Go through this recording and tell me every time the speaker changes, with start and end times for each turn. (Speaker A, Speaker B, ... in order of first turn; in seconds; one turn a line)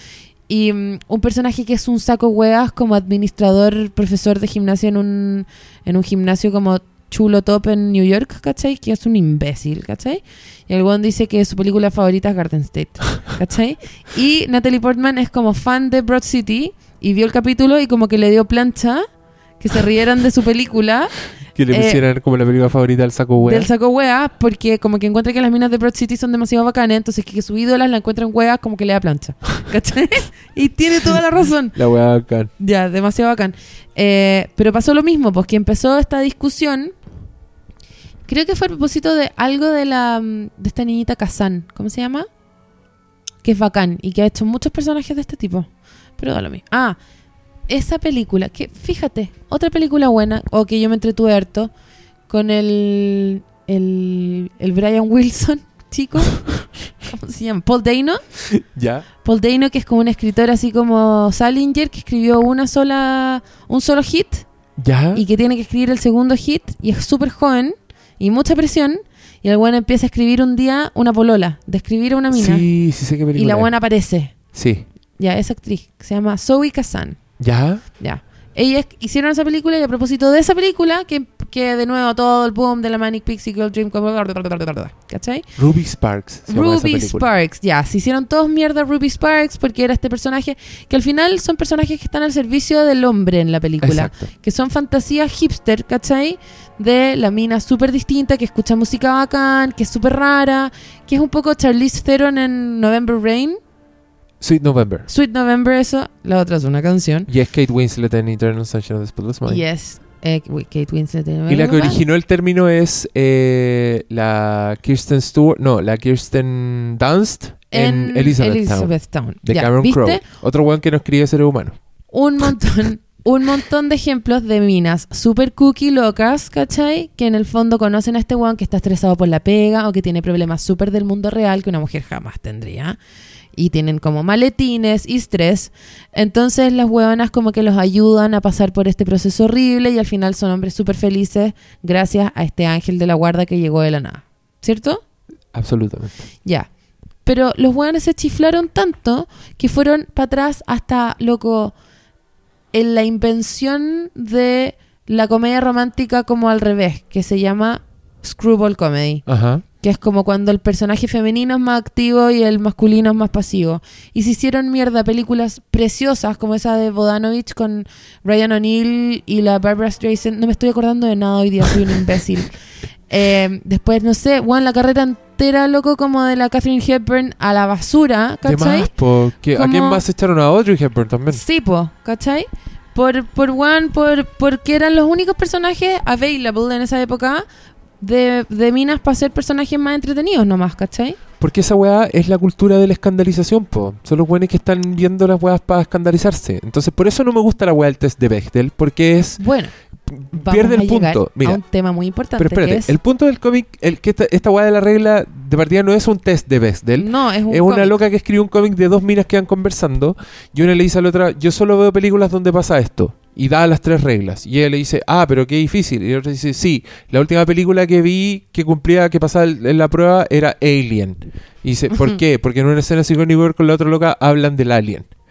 Speaker A: 0.5-19.0
Speaker A: 19.6-21.1
Speaker B: 21.5-23.7
Speaker A: 21.7-22.0
Speaker A: 23.4-31.8
Speaker B: 31.7-32.5
Speaker A: 32.6-36.9
Speaker A: 38.3-42.3
Speaker A: 43.4-47.0
Speaker A: 47.7-51.7
Speaker A: 52.3-56.4
Speaker A: 57.0-58.2
Speaker B: 58.5-59.0
Speaker A: 59.2-64.5
Speaker B: 64.8-65.2
Speaker A: 65.1-72.7
Speaker B: 72.3-73.7
Speaker A: 73.3-74.3
Speaker B: 74.5-74.8
Speaker A: 75.2-77.2
Speaker B: 77.4-77.8
Speaker A: 78.0-85.5
Speaker B: 85.6-87.3
Speaker A: 86.5-103.6
Speaker B: 93.8-94.3
Speaker B: 104.4-105.1
Speaker A: 105.1-107.3
Speaker B: 107.3-109.6
Speaker A: 109.5-112.0
Speaker B: 111.5-121.8
Speaker A: 117.7-120.2
Speaker A: 122.1-133.0
Speaker A: 133.6-145.0
Speaker B: 145.5-146.2
Speaker A: 147.2-151.7
Speaker A: 152.7-159.2
Speaker B: 159.3-159.6
Speaker A: 159.8-172.5
Speaker A: 173.1-178.9
Speaker B: 178.4-181.4
Speaker A: 179.5-180.0
Speaker A: 181.3-187.4
Speaker A: 188.0-191.2
Speaker B: 191.4-199.4
Speaker A: 199.4-199.7
Speaker B: 200.1-201.6
Speaker A: 200.3-202.9
Speaker B: 202.4-225.1
Speaker A: 207.0-208.0